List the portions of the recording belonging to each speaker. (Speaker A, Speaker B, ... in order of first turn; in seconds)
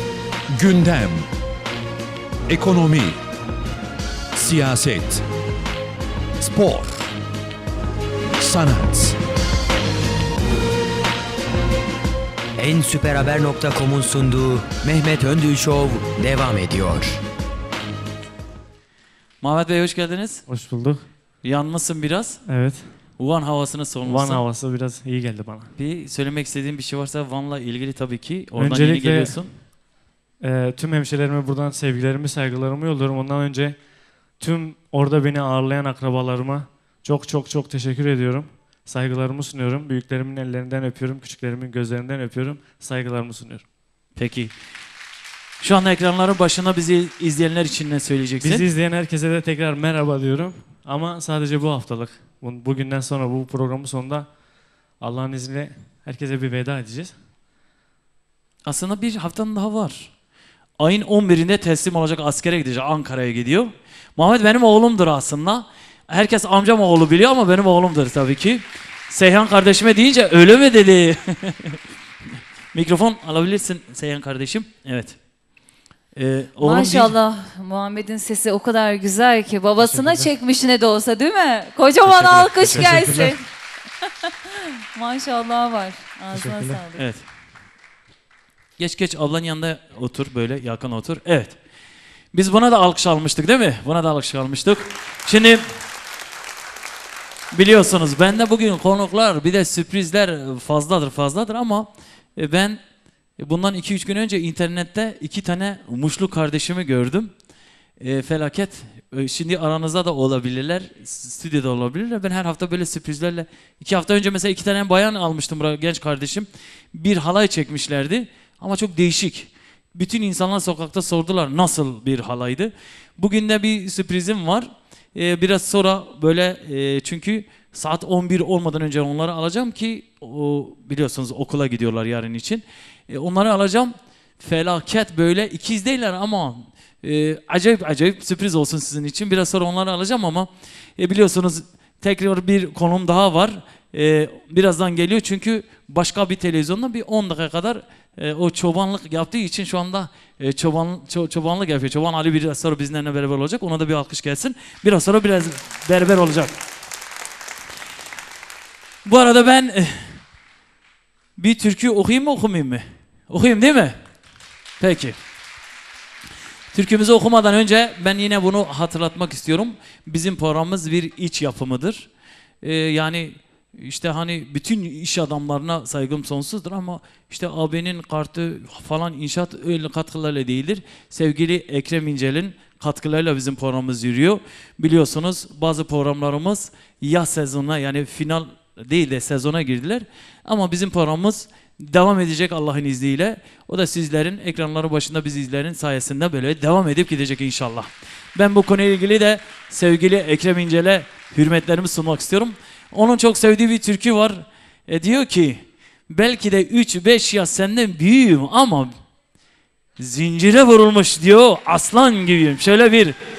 Speaker A: 0.5-1.3, 2.5-3.2, 4.3-5.2, 6.4-7.1, 8.4-9.2
Speaker B: 12.6-17.2
Speaker C: 19.4-20.4, 21.4-22.5, 23.2-24.4, 25.8-29.6, 44.2-44.5, 45.6-48.7, 58.6-60.1, 60.8-71.8, 72.7-75.2, 76.2-77.1, 87.0-87.2, 88.8-91.6, 92.3-95.6, 97.5-102.8, 103.4-107.3, 108.0-156.6, 159.1-160.2, 161.4-164.0, 164.8-165.2, 166.7-172.1, 172.6-208.9, 210.0-213.2
Speaker D: 20.5-21.1, 22.5-23.0, 24.0-25.7, 28.6-29.5, 30.4-43.6, 48.4-54.3, 55.0-57.2, 79.8-80.3, 82.1-83.4, 86.3-86.8
Speaker E: 76.6-83.4, 84.2-87.1